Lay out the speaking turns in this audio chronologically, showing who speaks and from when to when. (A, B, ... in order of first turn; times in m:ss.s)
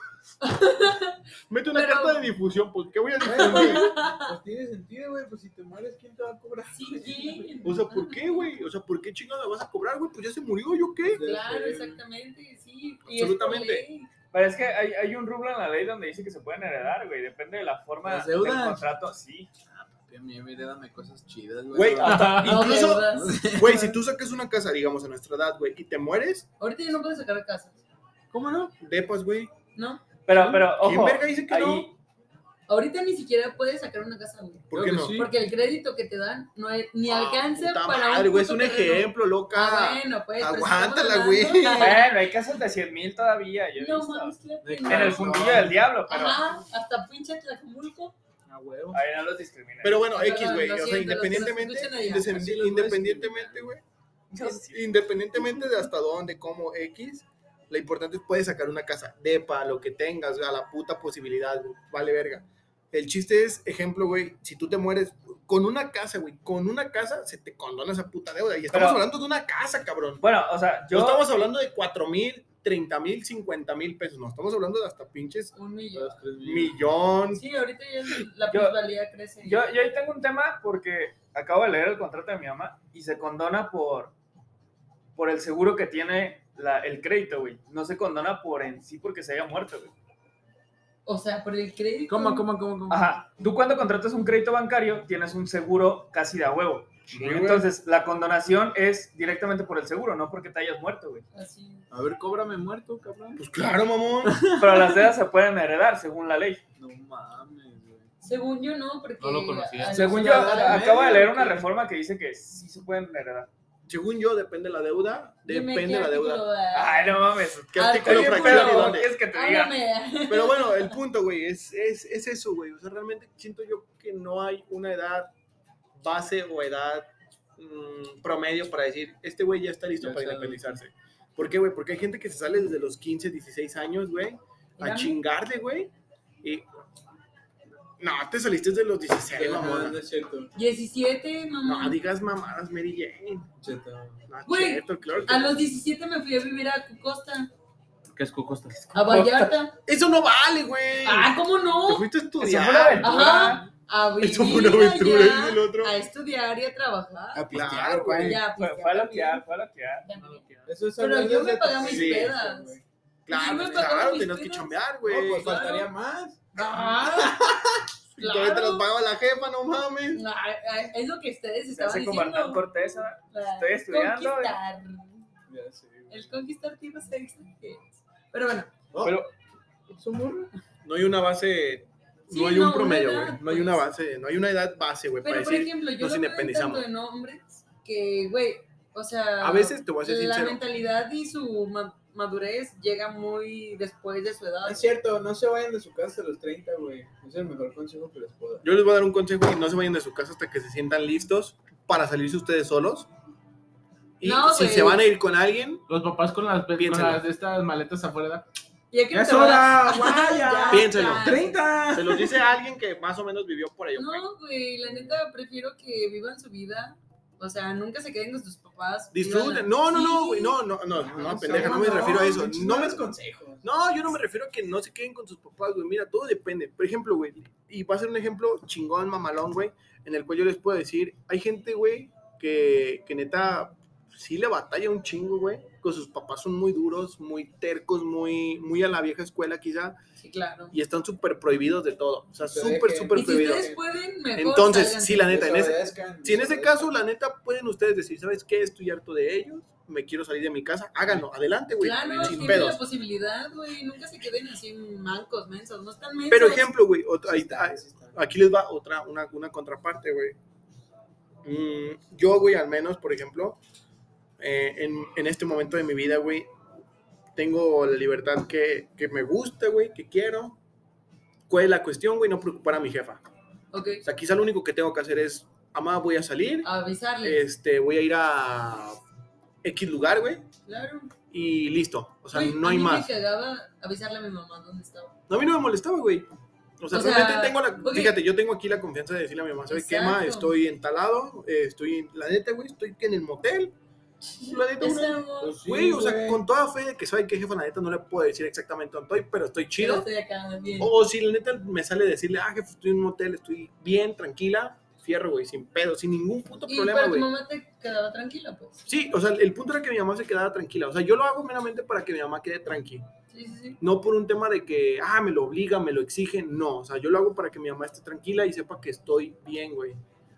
0:00.4-0:02.2 A
0:01.5-0:03.9 B
0:03.2-0:07.7 C
0:03.3-0:04.4 A
0:06.7-0:08.5 A
0:07.6-0:11.2 B
0:11.0-0:12.0 C
0:11.2-0:14.1 A
0:13.0-0:13.9 B
0:14.3-0:19.5 D
0:18.0-0:18.9 C
0:19.7-0:23.9 C
0:21.7-0:26.5 B
0:22.1-0:22.4 E
0:22.3-0:23.9 A
0:26.6-0:27.8 A
0:28.3-0:28.7 C
0:28.8-0:29.5 B
0:29.8-0:30.1 A
0:30.3-0:31.9 D
0:30.3-0:30.7 C
0:30.7-0:31.9 B
0:32.7-0:42.1 A
0:34.7-0:35.2 B
0:34.7-0:35.3 C
0:37.0-0:42.1 B
0:41.8-0:46.4 D
0:43.8-0:45.4 A
0:44.6-0:45.8 C
0:46.1-0:48.2 A
0:48.5-0:48.9 C
0:48.5-0:49.0 E
0:48.9-0:50.1 D
0:49.8-0:53.8 B
0:50.1-0:52.5 A
0:52.1-0:53.7 C
0:54.3-0:54.8 D
0:54.4-1:10.2 B
1:08.7-1:09.0 D
1:10.2-1:11.5 D
1:10.9-1:15.5 B
1:15.5-1:16.2 A
1:15.9-1:17.0 C
1:16.4-1:17.4 B
1:17.4-1:19.6 A
1:18.5-1:18.8 D
1:19.4-1:24.1 D
1:25.2-1:29.9 D
1:31.1-1:32.5 A
1:32.1-1:33.0 C
1:32.9-1:41.2 D
1:37.1-1:37.7 B
1:41.3-1:41.9 A
1:41.9-1:43.4 C
1:43.4-1:44.4 B
1:44.2-1:45.0 C
1:44.6-1:46.6 D
1:46.8-1:48.1 C
1:48.2-1:50.8 A
1:49.2-1:50.0 E
1:49.9-1:53.5 D
1:50.0-1:51.7 C
1:53.9-1:56.4 B
1:55.5-2:01.0 A
1:56.7-1:59.8 D
1:57.7-1:59.1 B
2:00.3-2:05.3 B
2:06.0-2:16.6 B
2:10.0-2:10.8 C
2:14.8-2:15.2 A
2:18.0-2:20.0 B
2:19.3-2:20.5 C
2:20.6-2:22.0 A
2:21.6-2:23.5 B
2:23.6-2:24.3 C
2:24.3-2:25.6 B
2:24.5-2:27.5 A
2:28.1-2:29.3 E
2:28.9-2:29.8 A
2:29.0-2:29.5 D
2:29.9-2:33.5 B
2:31.0-2:32.1 A
2:32.4-2:33.6 D
2:33.0-2:37.6 A
2:34.2-2:36.0 B
2:37.4-2:38.4 E
2:37.4-2:38.4 C
2:37.5-2:38.4 B
2:38.2-2:39.4 A
2:38.5-2:40.1 D
2:40.0-2:42.8 A
2:40.2-2:40.7 E
2:40.7-2:42.8 C
2:41.8-2:42.4 B
2:43.3-2:45.6 B
2:43.3-2:44.8 A
2:45.0-2:47.9 C
2:45.3-2:45.9 A
2:46.6-2:47.5 A
2:48.2-2:50.2 B
2:48.2-2:48.9 A
2:50.1-2:52.6 A
2:51.7-2:54.6 D
2:53.3-2:55.3 A
2:55.5-2:56.3 C
2:56.1-2:58.7 A
2:58.9-2:59.2 C
2:59.9-3:00.5 C
3:00.8-3:06.9 B
3:02.3-3:03.8 A
3:05.2-3:14.9 A
3:09.4-3:10.6 B
3:14.6-3:18.6 C
3:18.6-3:23.1 B
3:24.2-3:25.9 B
3:24.2-3:25.0 A
3:25.9-3:28.4 E
3:26.8-3:27.2 B
3:28.9-3:31.6 A
3:29.1-3:32.3 E
3:29.4-3:32.3 C
3:30.7-3:31.4 B
3:31.9-3:34.3 B
3:34.0-3:40.6 A
3:39.1-3:43.1 B
3:41.0-3:43.6 C
3:41.7-3:41.9 A
3:43.6-4:00.0 B
4:00.2-4:00.7 A
4:00.7-4:03.7 B
4:02.5-4:03.8 C
4:03.1-4:05.4 A
4:04.4-4:12.8 B
4:05.2-4:06.9 C
4:11.8-4:16.7 A
4:12.1-4:12.6 C
4:16.3-4:20.4 B
4:17.2-4:18.2 C
4:21.4-4:23.6 B
4:24.4-4:26.5 B
4:27.4-4:30.6 B
4:31.5-4:33.2 B
4:33.7-4:34.0 A
4:34.0-4:36.7 B
4:36.6-4:37.4 A
4:37.2-4:39.0 B
4:39.6-4:40.5 B
4:40.7-4:41.1 A
4:41.3-4:43.1 B
4:42.3-4:45.2 A
4:45.3-4:46.3 B
4:46.8-4:53.7 B
4:46.9-4:48.2 A
4:49.7-4:50.5 A
4:54.2-4:55.6 A
4:54.4-5:00.1 B
4:55.4-4:56.4 C
4:59.8-5:00.9 A
5:00.8-5:07.3 B
5:06.7-5:08.9 A
5:08.9-5:13.1 B
5:13.3-5:13.8 A
5:13.8-5:20.0 B